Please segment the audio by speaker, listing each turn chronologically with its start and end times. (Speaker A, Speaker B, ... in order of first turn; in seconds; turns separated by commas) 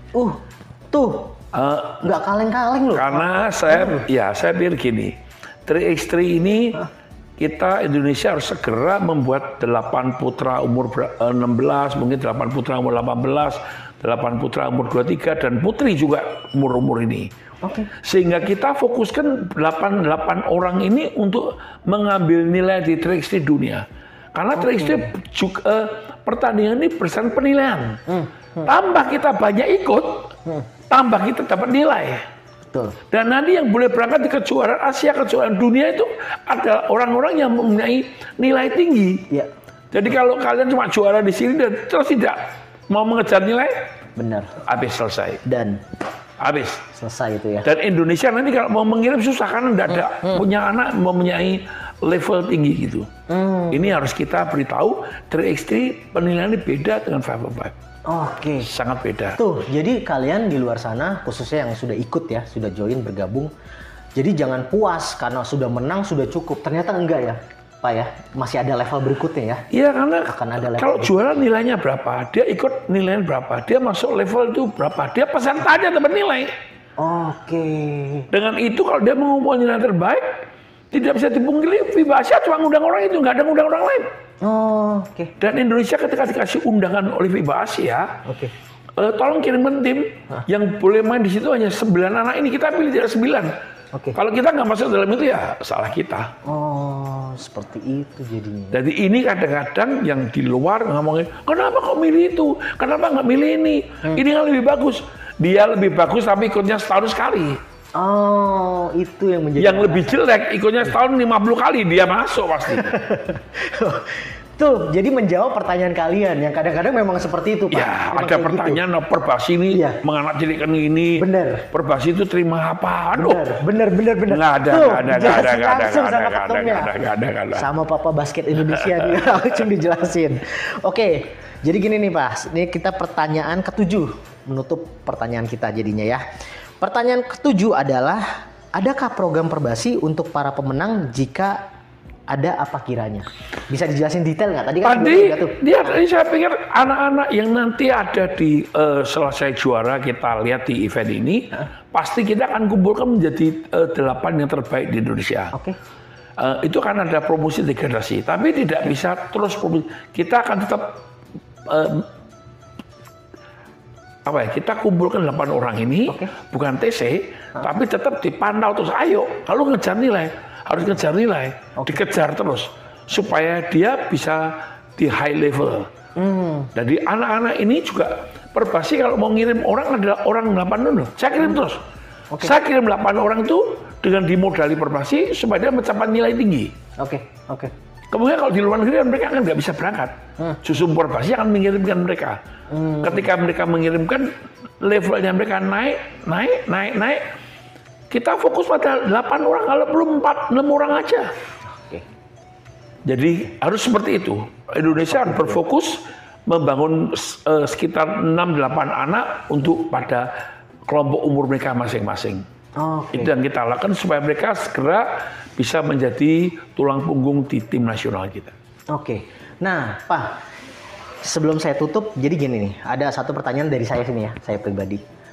Speaker A: 0.2-1.4, Speaker B: 1.5-2.1, Speaker A: 2.0-4.0, Speaker B: 2.9-6.8, Speaker B: 7.4-17.3, Speaker A: 17.6-17.9, Speaker B: 17.9-28.1, Speaker A: 24.6-25.1, Speaker A: 28.1-28.7, Speaker B: 28.6-30.4, Speaker B: 30.9-32.2, Speaker A: 32.7-33.0, Speaker B: 33.1-39.3, Speaker B: 39.9-43.9, Speaker A: 44.2-44.6, Speaker B: 44.6-45.4, Speaker A: 45.4-45.9, Speaker B: 46.4-46.9, Speaker A: 46.9-47.7, Speaker B: 47.6-53.1, Speaker A: 53.3-54.0, Speaker B: 53.7-57.8, Speaker A: 58.1-58.7, Speaker B: 58.6-59.4, Speaker A: 59.3-63.5, Speaker A: 64.2-69.7, Speaker B: 69.7-76.5, Speaker A: 70.3-71.4, Speaker A: 77.0-78.3, Speaker B: 78.3-84.1, Speaker A: 84.4-85.3, Speaker B: 85.4-88.2, Speaker A: 88.2-88.5, Speaker B: 89.0-93.5, Speaker B: 94.1-96.3, Speaker A: 96.4-98.8, Speaker B: 98.7-107.6, Speaker A: 108.0-110.2, Speaker B: 109.6-113.0, Speaker A: 112.7-118.8, Speaker B: 117.7-123.6, Speaker A: 119.7-120.0, Speaker A: 121.2-121.7, Speaker A: 123.2-126.9, Speaker B: 124.3-127.7, Speaker A: 127.5-136.2, Speaker A: 136.8-141.7, Speaker A: 142.3-146.0, Speaker B: 144.8-155.5, Speaker B: 156.4-161.0, Speaker B: 161.7-162.1, Speaker B: 164.2-175.9, Speaker A: 166.1-166.3, Speaker A: 176.2-176.7, Speaker B: 176.8-181.8, Speaker B: 182.4-186.7, Speaker A: 187.0-187.7, Speaker B: 188.1-192.4, Speaker A: 192.7-193.3, Speaker B: 193.0-197.3, Speaker B: 198.1-201.3, Speaker A: 201.7-202.1, Speaker B: 203.1-210.3, Speaker A: 204.9-205.6, Speaker B: 210.9-212.4, Speaker A: 212.8-213.3, Speaker B: 213.1-218.6, Speaker A: 218.9-220.4, Speaker A: 221.2-225.0